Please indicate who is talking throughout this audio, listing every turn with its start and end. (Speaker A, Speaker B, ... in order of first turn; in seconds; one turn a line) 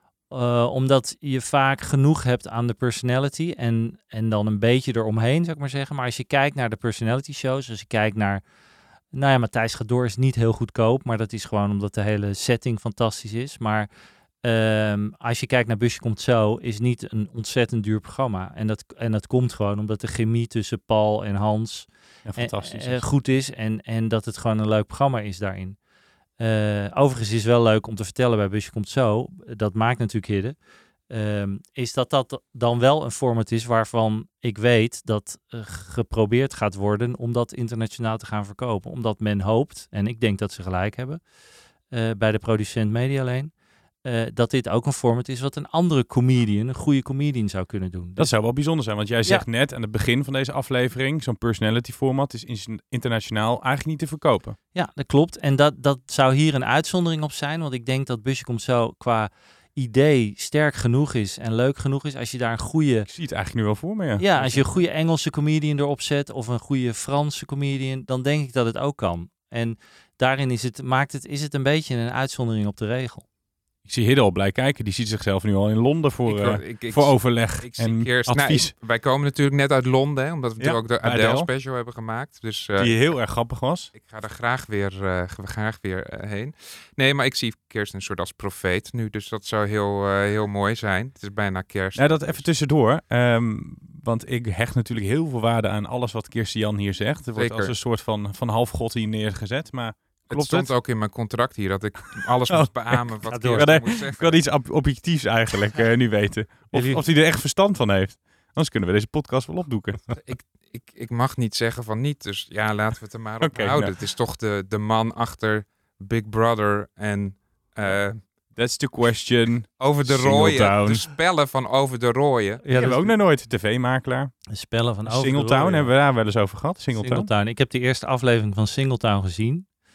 Speaker A: 0.3-8.4
Speaker A: 9.1-13.9
Speaker A: 14.4-25.8
Speaker B: 22.2-23.0
Speaker A: 26.4-30.6
Speaker A: 31.1-41.2
Speaker A: 41.9-48.6
Speaker B: 48.2-54.6
Speaker A: 54.7-63.1
Speaker B: 63.1-64.8
Speaker A: 64.2-73.2
Speaker B: 73.8-78.7
Speaker C: 76.3-83.0
Speaker B: 80.6-81.5
Speaker B: 82.8-83.9
Speaker C: 83.9-92.5
Speaker B: 92.0-100.7
Speaker C: 97.4-97.7
Speaker C: 100.3-104.4
Speaker B: 102.5-110.0
Speaker A: 103.3-103.8
Speaker A: 106.7-107.0
Speaker C: 110.2-118.2
Speaker B: 113.4-114.0
Speaker B: 118.5-121.1
Speaker C: 119.8-123.0
Speaker A: 122.6-123.2
Speaker B: 122.7-124.5
Speaker A: 124.5-126.0
Speaker B: 125.0-127.3
Speaker A: 127.0-129.7